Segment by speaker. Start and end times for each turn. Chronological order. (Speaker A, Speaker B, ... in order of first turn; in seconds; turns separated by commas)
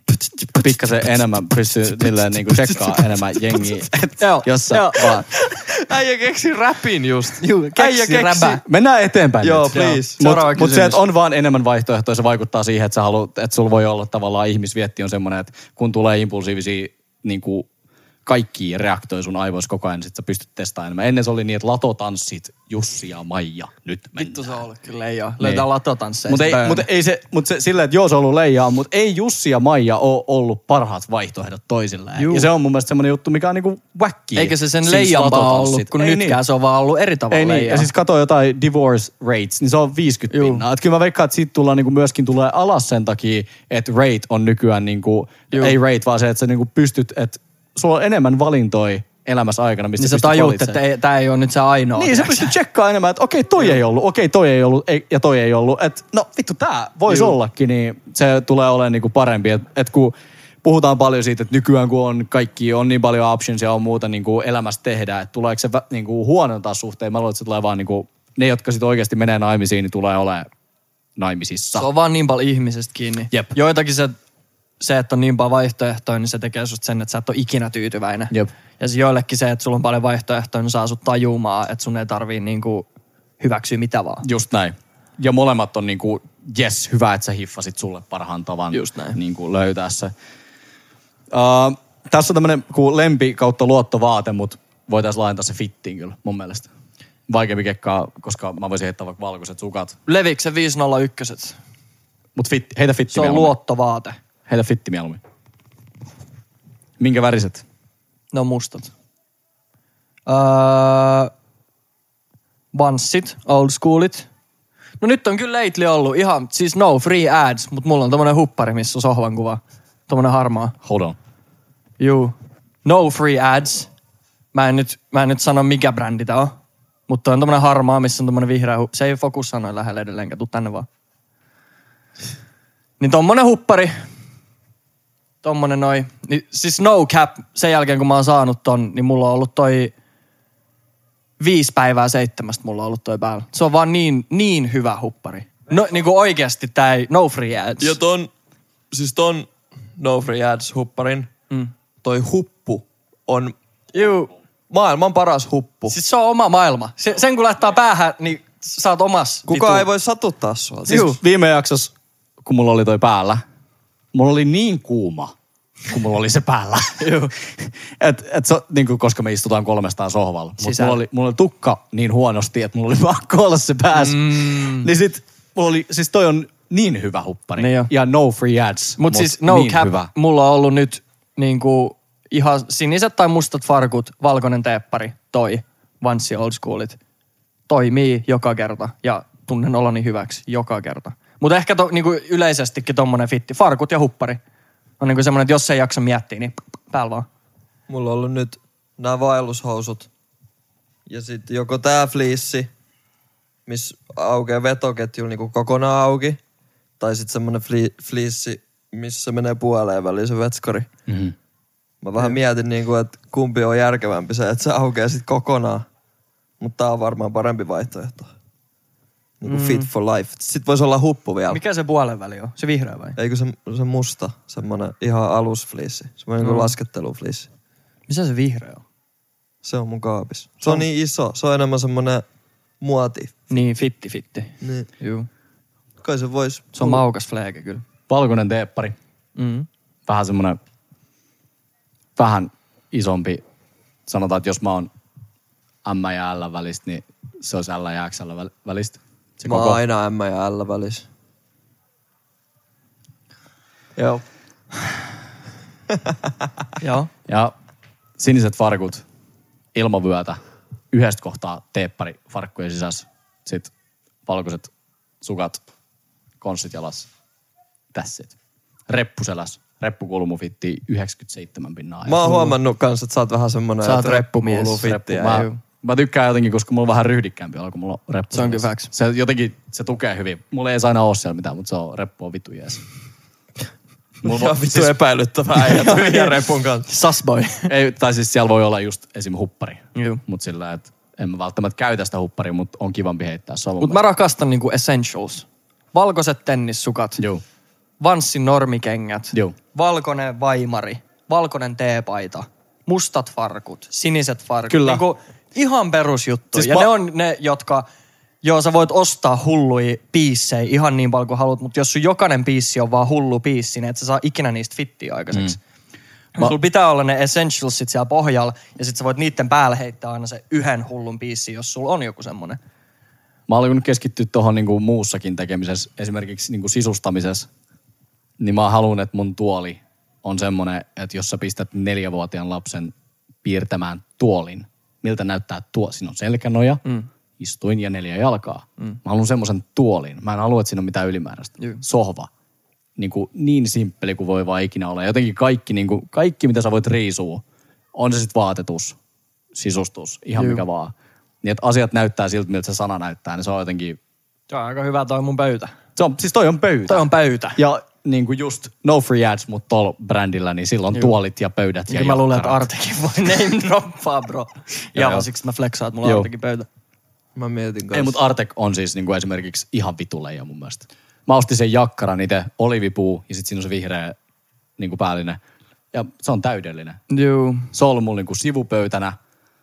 Speaker A: 0.6-5.3, Speaker B: 4.2-5.2, Speaker C: 5.4-8.6, Speaker B: 7.4-8.6, Speaker A: 8.6-17.7, Speaker C: 9.4-10.2, Speaker B: 9.7-11.0, Speaker A: 18.3-24.6, Speaker B: 24.2-26.9, Speaker A: 25.4-25.6, Speaker A: 26.3-36.4, Speaker B: 32.2-32.5, Speaker B: 34.4-37.9, Speaker A: 37.3-50.8, Speaker B: 40.3-40.6, Speaker B: 50.0-52.5, Speaker A: 52.0-70.5, Speaker B: 57.1-57.4, Speaker A: 71.2-71.9, Speaker B: 71.8-74.1, Speaker B: 74.8-82.9, Speaker B: 83.4-84.2, Speaker A: 84.2-90.1, Speaker B: 88.7-89.2, Speaker A: 91.3-96.7, Speaker A: 97.3-100.0, Speaker B: 100.1-101.6, Speaker A: 102.3-103.6, Speaker B: 103.1-104.1, Speaker A: 104.5-105.2, Speaker A: 107.0-107.6, Speaker B: 108.3-108.9, Speaker B: 110.3-111.3, Speaker B: 112.7-114.3, Speaker B: 115.0-120.8, Speaker A: 120.8-121.2, Speaker B: 122.0-123.9, Speaker B: 124.5-126.5, Speaker B: 127.1-130.9, Speaker B: 133.0-133.9, Speaker B: 135.4-139.9, Speaker B: 141.4-148.0, Speaker C: 147.8-148.3, Speaker C: 148.9-151.3, Speaker C: 152.0-153.5, Speaker B: 153.9-154.3, Speaker C: 154.7-155.9, Speaker B: 155.9-159.9, Speaker C: 159.5-161.2, Speaker A: 160.9-163.4, Speaker A: 164.1-165.3, Speaker A: 165.9-180.1, Speaker B: 167.0-167.3, Speaker B: 170.6-171.0, Speaker B: 173.9-174.9, Speaker B: 177.6-177.9, Speaker B: 179.0-187.0, Speaker B: 187.7-194.4, Speaker B: 195.0-197.2, Speaker C: 197.9-200.1, Speaker C: 201.1-202.7, Speaker C: 203.7-206.4, Speaker C: 207.0-210.9, Speaker A: 211.1-211.3, Speaker C: 212.0-215.8, Speaker C: 216.6-218.3, Speaker C: 219.4-221.6, Speaker B: 219.5-219.9, Speaker B: 221.5-223.2, Speaker C: 223.2-227.5, Speaker B: 226.4-226.7, Speaker B: 228.1-228.8, Speaker C: 229.6-232.2, Speaker C: 232.8-233.5, Speaker B: 233.5-235.3, Speaker C: 234.6-234.9, Speaker C: 236.0-237.0, Speaker B: 236.8-237.8, Speaker A: 238.1-238.9, Speaker B: 239.3-239.7, Speaker A: 240.1-240.6, Speaker A: 242.2-243.4, Speaker A: 244.1-244.9, Speaker A: 245.8-249.8, Speaker C: 249.4-251.1, Speaker C: 254.0-254.2, Speaker B: 256.8-257.1, Speaker A: 257.3-257.5, Speaker A: 258.2-259.0, Speaker A: 259.7-260.4, Speaker A: 260.9-263.7, Speaker A: 264.2-265.6, Speaker A: 266.4-267.1, Speaker A: 267.9-268.4, Speaker A: 268.9-272.5, Speaker C: 272.1-275.5, Speaker B: 273.9-275.6, Speaker A: 273.9-282.8, Speaker B: 278.3-278.9, Speaker A: 284.2-284.9, Speaker C: 284.2-286.9, Speaker B: 285.6-287.7, Speaker A: 287.7-294.0, Speaker B: 290.0-290.2, Speaker B: 293.8-297.2, Speaker A: 297.2-297.4, Speaker B: 298.0-307.9, Speaker A: 304.7-305.0, Speaker A: 306.5-306.9, Speaker B: 308.4-315.6, Speaker B: 316.4-322.6, Speaker A: 323.5-327.5, Speaker A: 328.4-332.9, Speaker A: 333.4-336.8, Speaker A: 337.4-342.3, Speaker A: 343.0-349.0, Speaker A: 349.5-354.0, Speaker B: 350.4-350.6, Speaker B: 354.5-355.8, Speaker A: 356.0-362.6, Speaker B: 356.9-357.6, Speaker B: 361.9-366.7, Speaker A: 364.9-365.2, Speaker A: 366.0-366.3, Speaker C: 367.4-368.2, Speaker A: 367.9-374.1, Speaker A: 374.8-375.4, Speaker A: 375.9-377.0, Speaker B: 377.1-377.7, Speaker A: 377.7-379.1